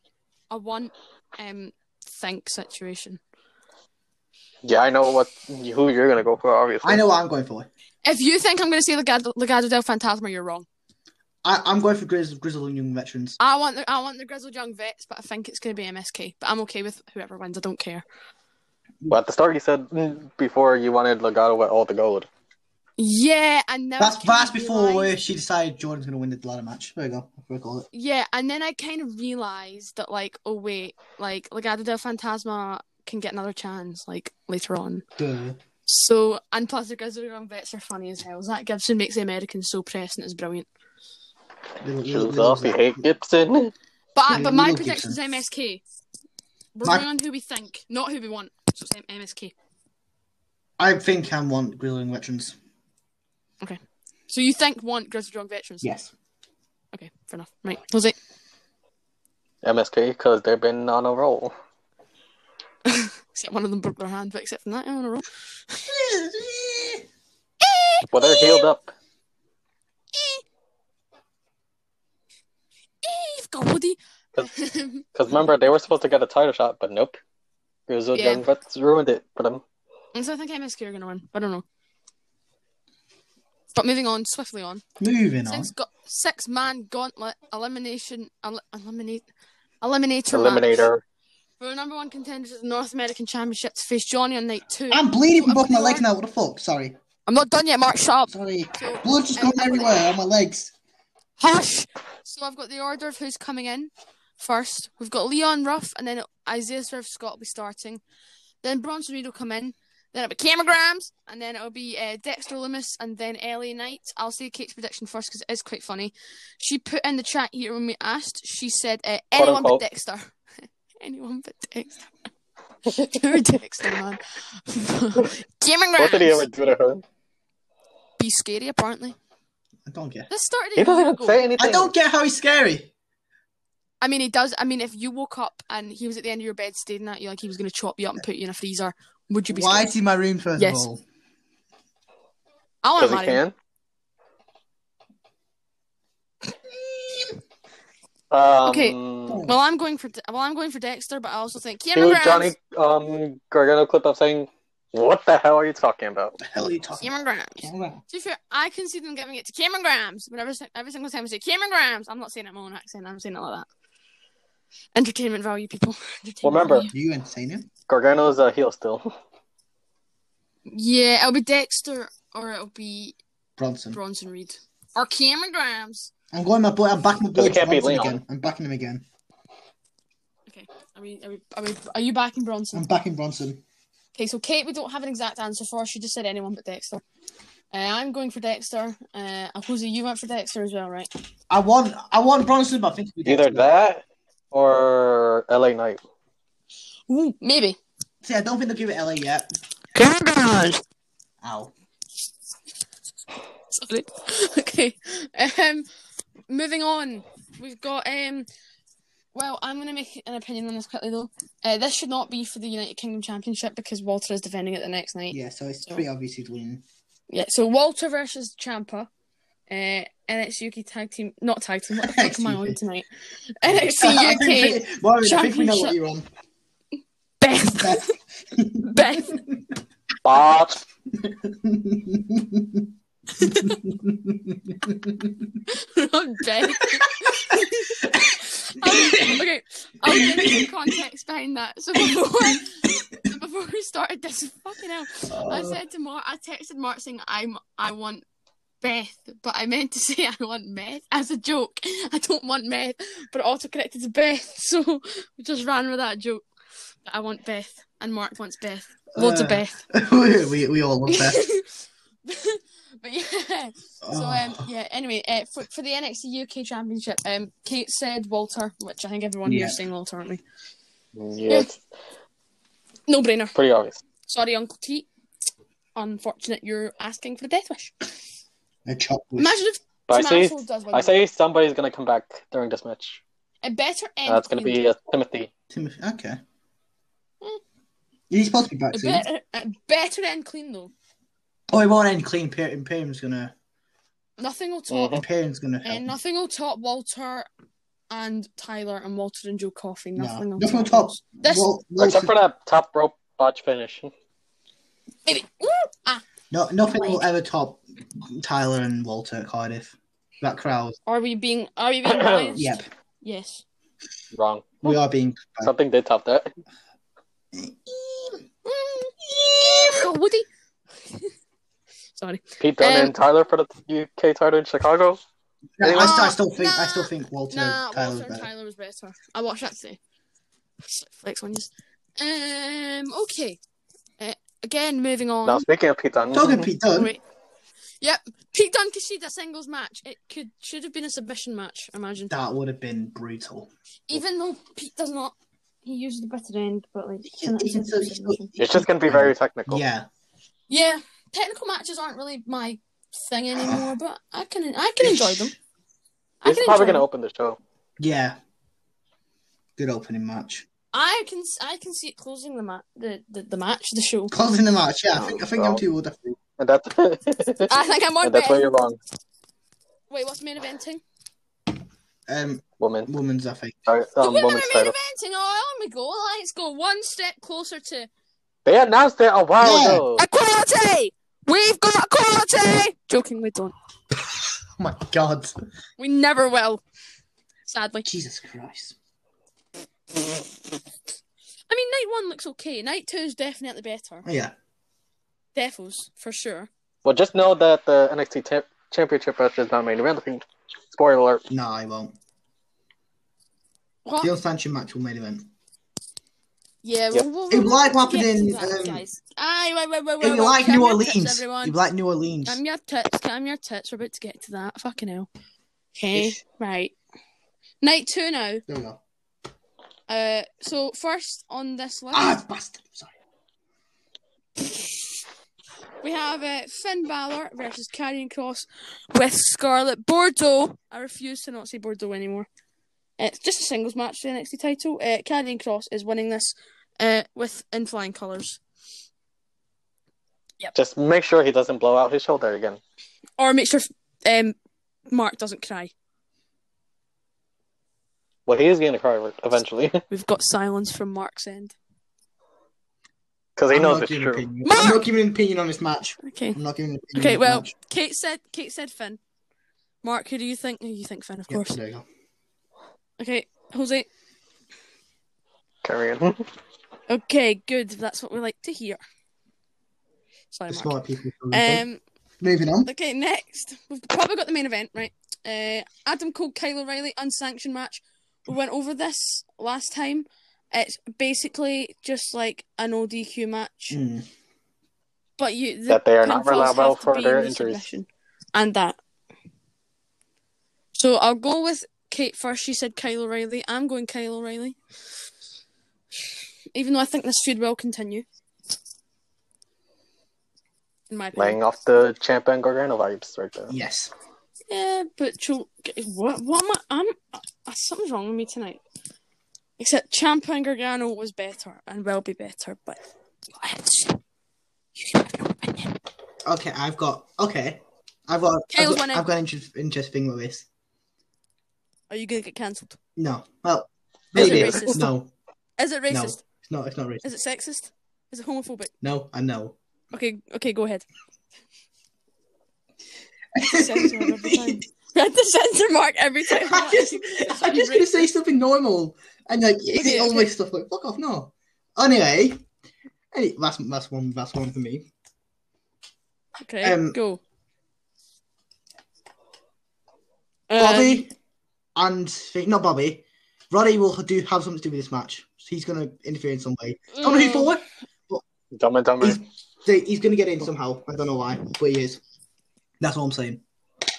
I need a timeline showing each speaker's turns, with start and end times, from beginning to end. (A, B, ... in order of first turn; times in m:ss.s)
0:00.5-0:03.2 A
0:04.6-0:07.0 B
0:06.8-0:07.7 C
0:08.0-0:10.7 A
0:11.4-0:13.4 C
0:13.4-0:18.0 A
0:19.1-0:22.3 B
0:23.0-0:25.1 A
0:24.0-0:27.9 C
0:27.9-0:35.0 A
0:35.2-0:35.6 C
0:35.9-0:40.7 A
0:41.8-0:43.0 C
0:42.0-0:43.7 B
0:44.2-0:45.8 A
0:44.3-0:45.2 C
0:46.8-0:49.5 A
0:50.8-0:52.6 C
0:53.6-0:55.9 A
0:55.8-0:56.1 C
0:56.9-0:58.2 A
0:59.6-1:01.5 B
1:02.8-1:05.8 A
1:05.9-1:07.0 C
1:07.6-1:08.7 A
1:08.1-1:08.9 B
1:10.1-1:10.4 A
1:13.0-1:15.4 A
1:15.2-1:17.2 B
1:17.9-1:19.6 B
1:18.2-1:18.5 A
1:20.1-1:21.6 A
1:23.7-1:24.8 A
1:25.0-1:25.7 C
1:25.5-1:29.2 A
1:29.8-1:30.8 A
1:30.3-1:31.0 B
1:31.6-1:36.1 A
1:34.9-1:37.0 C
1:37.3-1:40.2 A
1:38.3-1:40.7 C
1:41.4-1:48.0 A
1:48.6-2:00.3 A
1:59.4-1:59.8 B
2:01.0-2:02.1 A
2:02.9-2:06.5 A
2:06.0-2:07.0 B
2:08.2-2:09.2 A
2:09.9-2:10.3 C
2:10.3-2:11.5 A
2:10.8-2:11.9 B
2:11.6-2:12.9 C
2:14.0-2:20.0 A
2:19.5-2:21.0 C
2:20.6-2:20.9 A
2:22.8-2:23.4 A
2:23.0-2:23.5 B
2:28.3-2:29.4 B
2:28.6-2:32.5 A
2:29.3-2:29.6 C
2:32.0-2:36.4 B
2:36.4-2:38.0 C
2:37.0-2:43.7 A
2:45.0-2:46.9 A
2:46.4-2:46.9 B
2:46.9-2:47.7 C
2:47.9-2:49.1 B
2:50.7-2:53.2 A
2:53.6-2:54.0 C
2:53.9-2:56.1 A
2:56.3-2:59.0 C
2:57.4-2:58.2 B
3:00.5-3:02.9 A
3:02.7-3:03.6 C
3:04.2-3:07.0 A
3:07.7-3:11.1 A
3:11.5-3:13.7 C
3:13.2-3:16.0 B
3:17.1-3:17.8 A
3:18.2-3:19.5 C
3:20.0-3:20.8 A
3:21.4-3:21.7 C
3:23.7-3:25.9 A
3:26.5-3:28.5 A
3:29.3-3:36.0 A
3:35.3-3:36.8 C
3:37.3-3:39.1 A
3:39.7-3:43.1 A
3:42.0-3:42.8 C
3:43.6-3:46.0 A
3:43.6-3:46.3 C
3:47.4-3:48.1 A
3:47.6-3:49.6 C
3:48.8-3:49.4 A
3:50.2-3:50.8 B
3:51.1-3:52.9 C
3:53.4-3:53.8 A
3:53.4-3:55.6 C
3:55.7-4:08.2 A
3:57.2-3:59.4 C
4:00.0-4:01.0 C
4:05.2-4:05.8 C
4:08.8-4:16.4 A
4:17.0-4:19.8 A
4:19.1-4:21.4 C
4:21.1-4:30.4 A
4:24.0-4:24.7 C
4:29.4-4:29.8 C
4:31.2-4:31.8 B
4:33.1-4:33.6 A
4:33.6-4:34.0 B
4:34.3-4:35.1 A
4:36.0-4:37.9 A
4:38.9-4:39.6 C
4:39.4-4:41.2 A
4:40.1-4:43.2 B
4:43.6-4:44.8 A
4:44.3-4:45.5 B
4:45.7-4:46.4 C
4:48.3-4:49.3 C
4:48.9-4:50.9 A
4:51.7-4:53.5 C
4:54.4-4:55.2 A
4:54.9-4:55.2 B
4:55.1-4:56.2 C
4:55.8-4:57.5 A
4:58.1-5:01.7 A
5:00.2-5:02.4 C
5:02.0-5:04.1 B
5:05.3-5:06.3 A
5:06.5-5:11.0 C
5:06.8-5:07.2 A
5:11.1-5:13.6 A
5:12.0-5:12.6 B
5:12.6-5:12.8 C
5:14.3-5:15.0 B
5:14.8-5:15.7 C
5:15.6-5:16.5 B
5:17.5-5:18.4 C
5:18.8-5:20.5 A
5:19.2-5:20.1 C
5:21.1-5:21.3 A
5:22.2-5:23.1 A
5:22.6-5:25.2 B
5:25.8-5:28.5 C
5:25.8-5:26.3 B
5:26.0-5:30.0 A
5:30.8-5:33.6 A
5:34.2-5:35.6 A
5:35.5-5:36.7 B
5:36.3-5:37.2 C
5:36.9-5:37.2 A
5:38.0-5:42.3 A
5:42.3-5:43.7 C
5:44.1-5:48.5 A
5:47.3-5:50.1 C
5:48.6-5:49.8 B
5:50.7-5:55.5 A
5:53.5-5:53.9 C
5:55.0-5:55.6 C
5:56.4-5:57.1 A
5:56.4-5:57.6 B
5:58.0-5:58.4 C
5:59.8-6:00.7 C
6:00.9-6:04.4 A
6:04.3-6:06.4 C
6:05.1-6:05.8 B
6:06.6-6:09.0 B
6:07.7-6:08.7 A
6:10.1-6:11.0 A
6:12.3-6:14.0 C
6:12.8-6:13.1 B
6:13.9-6:15.0 B
6:14.2-6:18.1 A
6:18.6-6:20.3 B
6:19.6-6:20.0 C
6:20.2-6:23.7 A
6:24.3-6:25.6 C
6:26.0-6:26.8 A
6:27.7-6:28.1 A
6:28.0-6:29.0 C
6:31.7-6:34.2 A
6:34.2-6:34.5 C
6:35.6-6:36.7 A
6:37.0-6:41.4 B
6:41.5-6:42.2 C
6:44.2-6:45.5 C
6:46.8-6:51.8 A
6:47.5-6:49.0 C
6:50.2-6:52.6 C
6:52.5-6:55.3 A
6:56.0-6:57.0 A
6:57.8-6:58.6 A
6:58.7-6:59.0 C
7:00.1-7:02.4 A
7:02.1-7:03.2 C
7:04.6-7:05.2 A
7:06.0-7:12.5 A
7:13.2-7:18.6 A
7:20.8-7:22.8 B
7:23.4-7:24.6 A
7:25.1-7:25.9 A
7:28.5-7:30.0 B
7:30.1-7:31.8 A
7:33.6-7:34.4 B
7:33.7-7:37.7 C
7:34.6-7:35.1 A
7:36.2-7:36.6 A
7:37.2-7:39.2 A
7:40.0-7:41.8 A
7:41.5-7:42.0 C
7:43.2-7:44.1 A
7:45.8-7:46.4 B
7:47.1-7:49.0 A
7:50.5-7:50.9 A
7:50.7-7:51.8 C
7:51.5-7:52.0 A
7:52.4-7:52.9 C
7:52.9-8:04.0 A
8:03.9-8:04.3 C
8:05.4-8:09.0 A
8:05.9-8:07.9 B
8:11.0-8:14.8 A
8:16.7-8:18.2 A
8:21.1-8:21.6 A
8:21.4-8:23.7 B
8:23.7-8:24.1 C
8:24.7-8:28.8 A
8:29.8-8:33.0 A
8:33.5-8:34.2 A
8:35.0-8:36.0 A
8:36.4-8:40.7 C
8:38.7-8:39.2 A
8:42.1-8:43.0 A
8:43.2-8:45.3 C
8:44.4-8:44.9 B
8:44.4-8:45.1 A
8:45.8-8:46.4 A
8:46.1-8:47.3 C
8:47.2-8:48.9 A
8:49.0-8:49.8 C
8:50.1-8:51.1 A
8:53.6-8:54.8 C
8:53.6-8:58.3 A
8:56.5-9:02.7 C
8:59.9-9:00.5 A
9:03.3-9:05.1 C
9:06.6-9:07.4 A
9:06.8-9:07.2 C
9:10.7-9:11.2 A
9:10.8-9:11.3 C
9:12.0-9:18.4 C
9:17.1-9:17.8 A
9:18.7-9:19.4 B
9:19.2-9:22.2 C
9:23.0-9:23.6 C